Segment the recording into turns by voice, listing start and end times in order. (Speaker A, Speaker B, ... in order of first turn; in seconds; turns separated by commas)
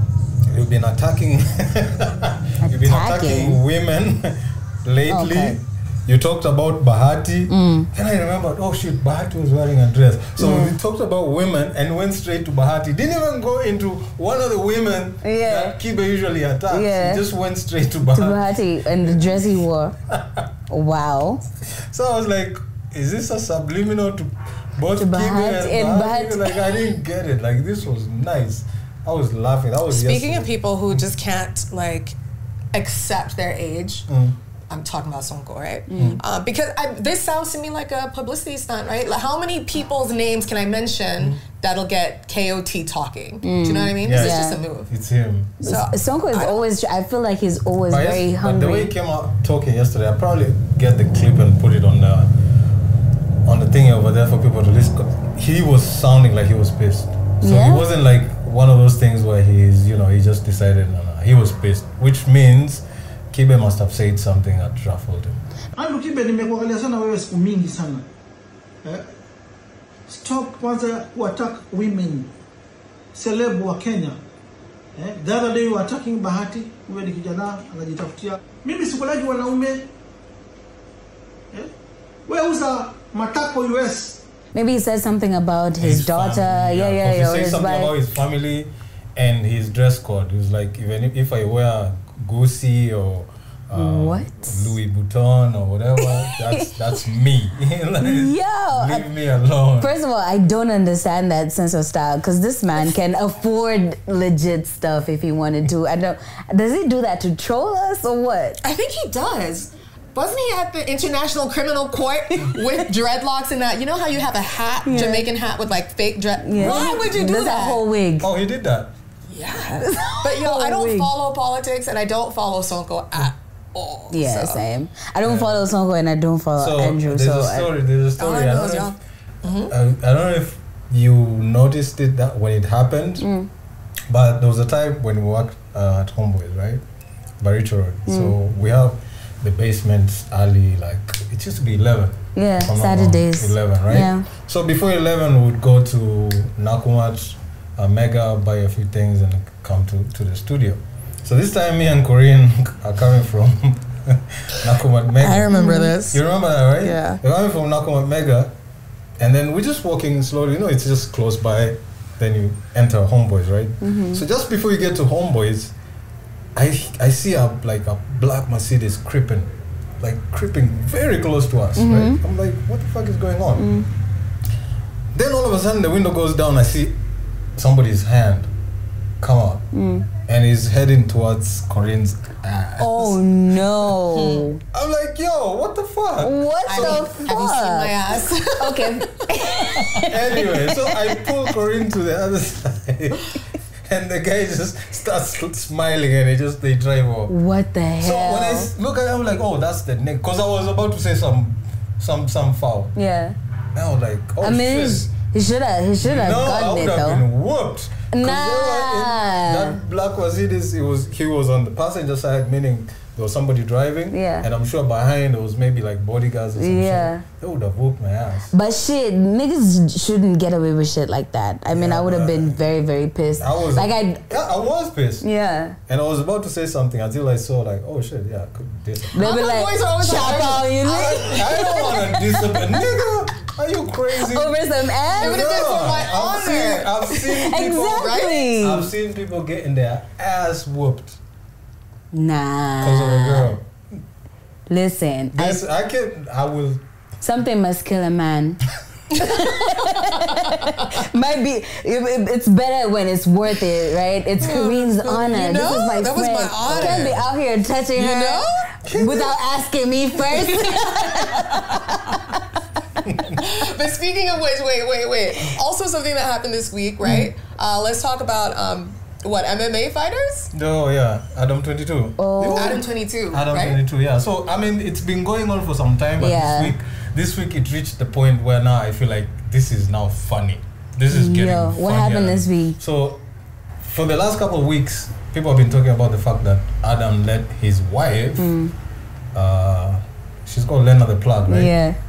Speaker A: 0.5-20.4, Speaker B: 2.6-3.6, Speaker B: 5.1-5.6, Speaker B: 7.5-7.9, Speaker B: 10.4-10.8, Speaker B: 15.2-15.8, Speaker B: 16.7-17.2, Speaker B: 18.0-19.9, Speaker B: 20.7-21.4, Speaker A: 21.6-31.0, Speaker B: 25.0-26.5, Speaker C: 29.9-32.1, Speaker C: 32.7-34.1, Speaker A: 34.1-34.4, Speaker C: 34.7-44.9, Speaker B: 35.9-36.2, Speaker A: 36.0-36.2, Speaker B: 43.4-44.6, Speaker A: 44.0-45.6, Speaker B: 45.6-48.9, Speaker C: 45.6-46.6, Speaker A: 47.9-52.3, Speaker A: 53.5-65.4, Speaker B: 57.4-57.9, Speaker D: 65.8-68.0, Speaker D: 70.1-72.3, Speaker D: 73.1-74.2, Speaker D: 75.0-79.9, Speaker D: 82.3-84.2, Speaker B: 84.5-87.9, Speaker A: 85.8-99.9, Speaker B: 93.7-94.7, Speaker B: 96.2-96.7, Speaker B: 98.0-99.1, Speaker B: 99.8-108.6, Speaker C: 108.6-117.8, Speaker B: 114.8-115.3, Speaker B: 116.4-118.3, Speaker A: 116.6-117.0, Speaker A: 118.2-118.9, Speaker C: 119.3-124.6, Speaker B: 119.8-121.1, Speaker B: 124.1-127.7, Speaker A: 125.2-125.6, Speaker A: 126.5-128.9, Speaker C: 128.2-129.7, Speaker A: 129.6-133.3, Speaker B: 133.2-133.5, Speaker A: 134.1-136.8, Speaker A: 137.4-158.5, Speaker B: 138.1-138.3, Speaker B: 142.3-144.3, Speaker C: 155.2-156.2, Speaker B: 155.5-155.9, Speaker C: 156.8-157.2, Speaker A: 159.2-165.7, Speaker B: 163.8-164.2, Speaker A: 166.5-173.7, Speaker B: 171.8-172.2, Speaker B: 173.6-173.9, Speaker A: 175.1-177.0, Speaker A: 177.6-178.5, Speaker A: 179.2-179.7, Speaker B: 179.7-180.1, Speaker A: 180.3-183.3, Speaker B: 182.8-184.6, Speaker C: 184.1-184.5, Speaker A: 184.7-187.1, Speaker B: 186.2-188.0, Speaker C: 186.7-190.0, Speaker B: 188.5-191.1, Speaker A: 190.1-197.3, Speaker B: 197.3-198.7, Speaker A: 198.0-202.9, Speaker B: 202.9-203.4, Speaker A: 203.7-205.1, Speaker B: 204.4-207.2, Speaker A: 206.0-218.5, Speaker B: 208.1-209.8, Speaker B: 214.1-214.5, Speaker B: 216.6-217.2, Speaker B: 218.5-224.3, Speaker A: 221.7-222.6, Speaker A: 223.4-225.2, Speaker B: 225.2-225.8, Speaker A: 225.9-229.3, Speaker C: 229.1-232.0, Speaker B: 229.1-232.0, Speaker A: 230.8-241.2, Speaker B: 234.2-235.5, Speaker C: 235.2-238.5, Speaker B: 237.1-238.9, Speaker B: 242.1-243.6, Speaker A: 242.8-243.7, Speaker B: 244.7-245.6, Speaker A: 245.3-246.8, Speaker B: 247.2-248.6, Speaker B: 249.1-262.4, Speaker C: 249.2-250.5, Speaker C: 254.4-257.2, Speaker A: 256.6-257.2, Speaker C: 257.9-258.7, Speaker A: 258.8-259.4, Speaker C: 260.3-262.2, Speaker A: 263.0-263.4, Speaker C: 263.4-270.5, Speaker A: 270.5-283.2, Speaker B: 272.2-272.8, Speaker C: 272.6-273.8, Speaker B: 276.2-276.8, Speaker B: 281.1-282.8, Speaker A: 283.8-288.5, Speaker B: 288.4-288.7, Speaker A: 289.3-291.7, Speaker B: 291.5-292.0